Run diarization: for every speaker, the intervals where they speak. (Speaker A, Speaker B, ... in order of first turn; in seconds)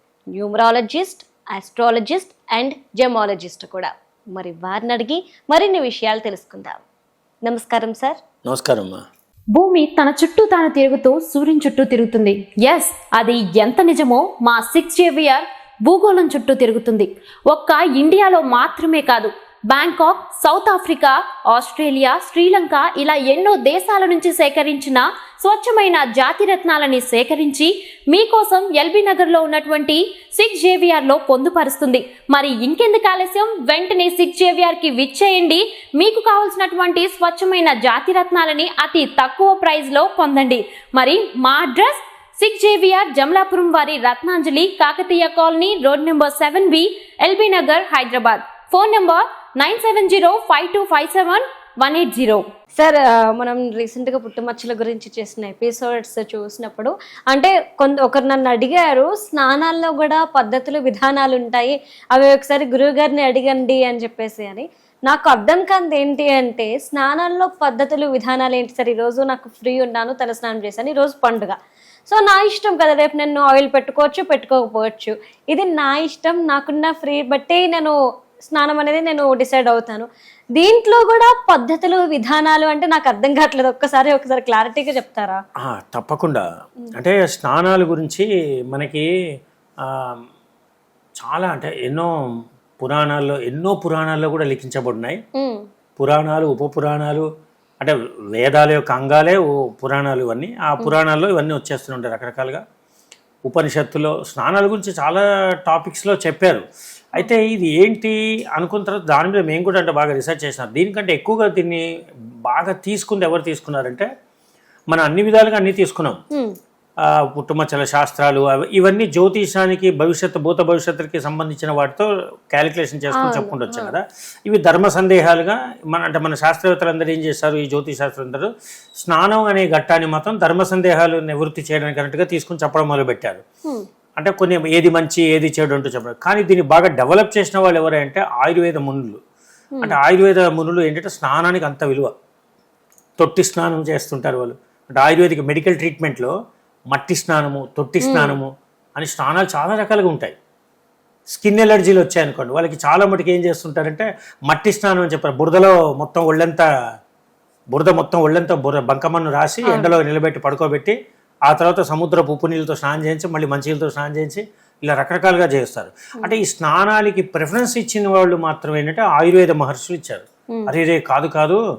Speaker A: 0.3-6.8, 7.5-8.2, 52.8-78.0, 78.5-85.4, 95.3-95.7, 123.1-123.9, 148.0-148.4, 159.7-159.9
Speaker B: 8.4-9.0, 85.6-86.4, 86.9-89.1, 89.8-90.2, 91.2-92.1, 92.8-95.2, 96.0-97.3, 97.8-102.6, 103.5-111.8, 112.5-114.1, 114.9-116.2, 117.0-133.4, 134.2-139.2, 139.8-142.1, 143.2-146.3, 146.9-150.3, 151.3-156.7, 157.7-160.9, 161.5-171.6
Speaker C: 9.5-52.5